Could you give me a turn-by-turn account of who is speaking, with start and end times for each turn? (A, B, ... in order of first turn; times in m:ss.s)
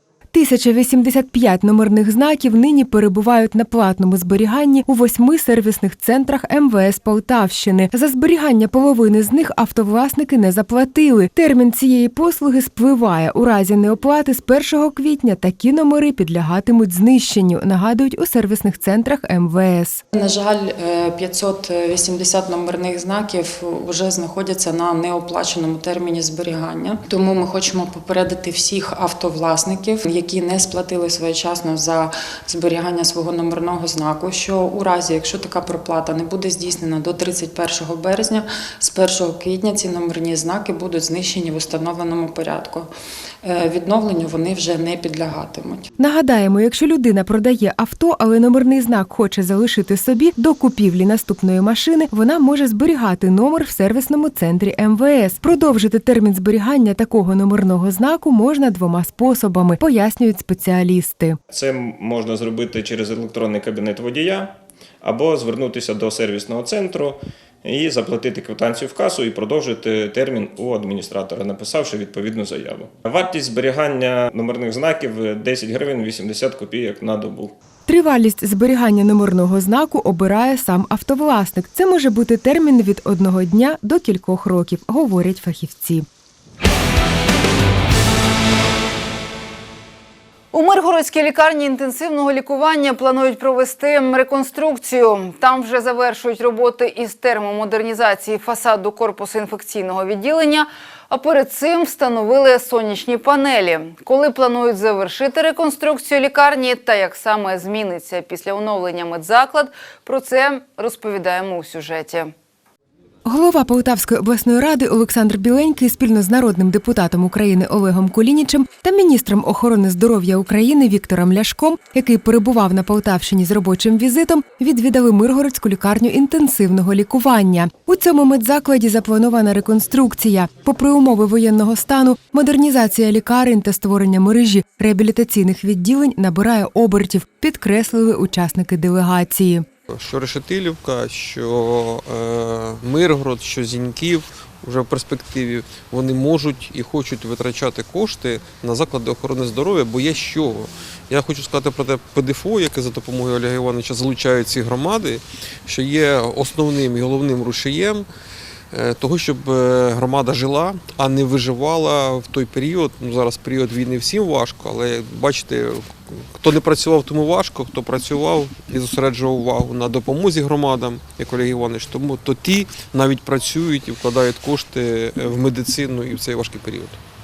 0:00.3-0:20.0 A
0:20.1-0:42.9 B
0:43.4-0:45.8 B
0:46.0-1:01.4 A
1:01.5-1:17.5 C
1:17.9-1:26.0 A
1:30.5-1:52.3 D
1:53.2-2:19.6 A
2:19.9-2:38.1 E
2:38.7-2:57.0 E